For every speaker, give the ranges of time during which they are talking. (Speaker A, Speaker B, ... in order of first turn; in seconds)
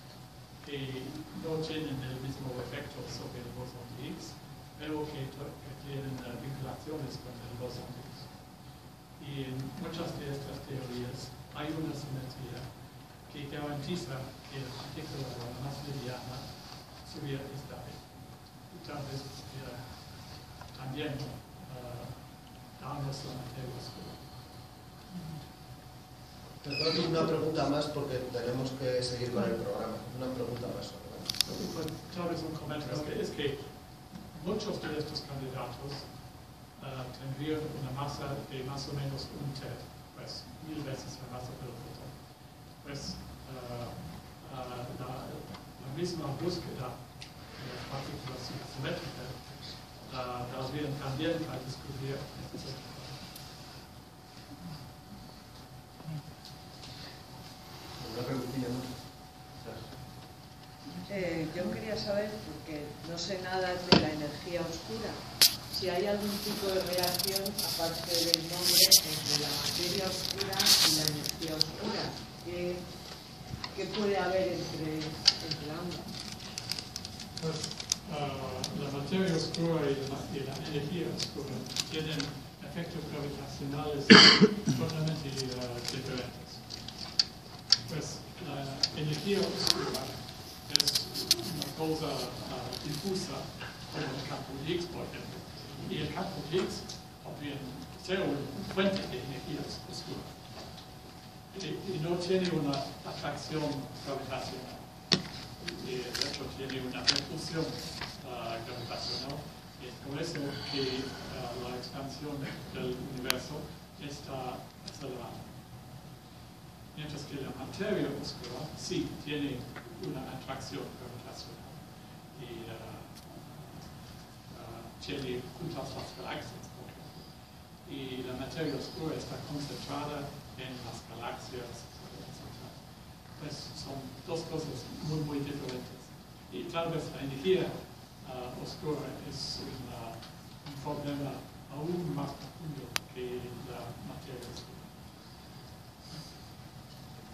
Speaker A: 0.6-24.4, 31.4-53.4, 77.3-87.0, 87.8-101.0, 101.5-115.9, 116.9-145.2
Speaker B: 26.6-31.3, 58.0-58.9
Speaker C: 61.1-72.9, 73.7-76.1